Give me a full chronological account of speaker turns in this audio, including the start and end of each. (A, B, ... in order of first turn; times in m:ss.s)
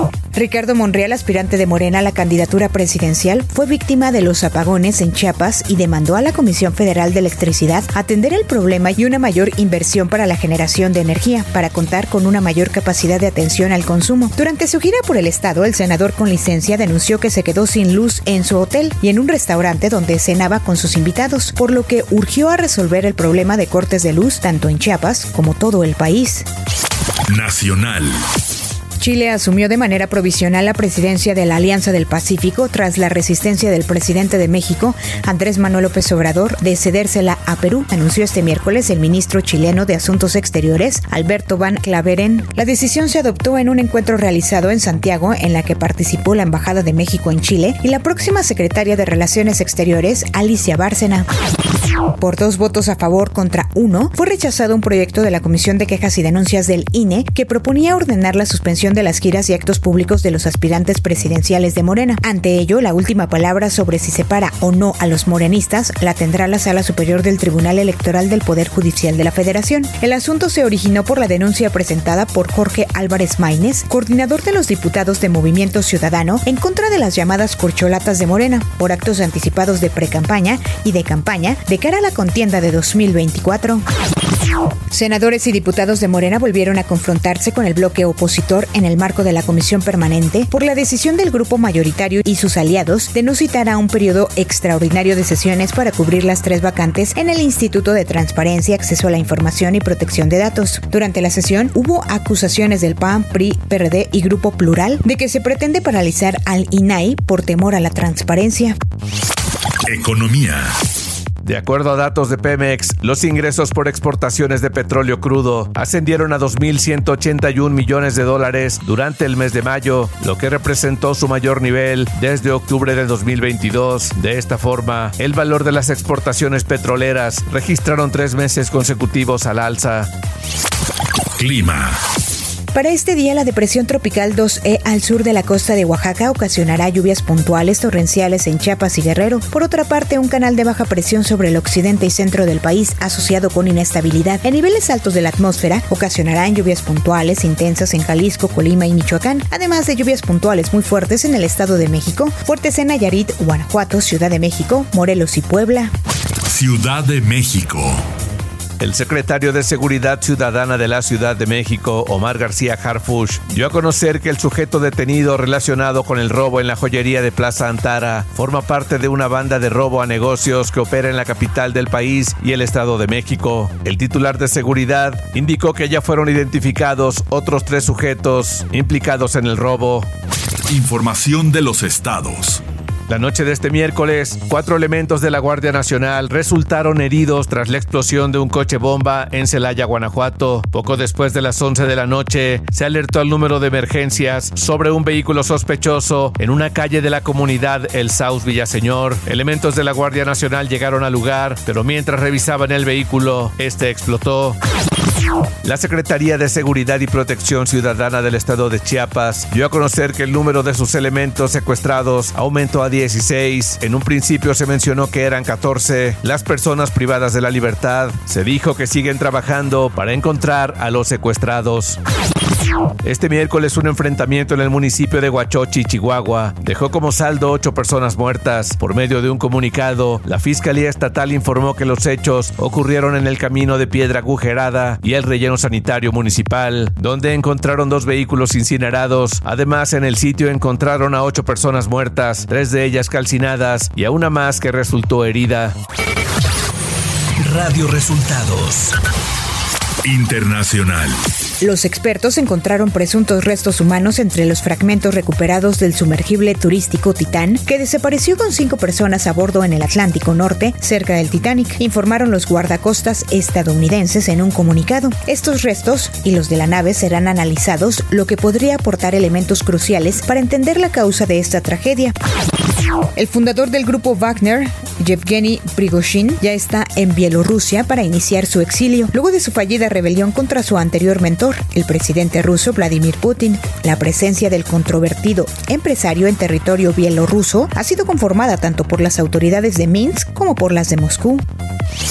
0:00.4-0:26.5 A
0:27.3-0:28.2 B
0:29.0-0:51.3 A
0:52.2-1:23.8 A
1:24.9-1:48.8 A
1:49.9-1:50.7 B
1:51.4-2:10.1 C
2:11.4-2:12.0 B
2:12.7-2:35.9 A
2:36.5-2:38.0 B
2:38.8-3:00.1 C
3:00.7-3:02.6 B
3:03.1-3:24.6 C
3:25.6-3:42.0 C
3:43.0-4:05.7 C
4:07.4-4:08.9 C
4:10.0-4:11.2 B
4:11.6-4:32.1 A
4:33.2-4:51.4 A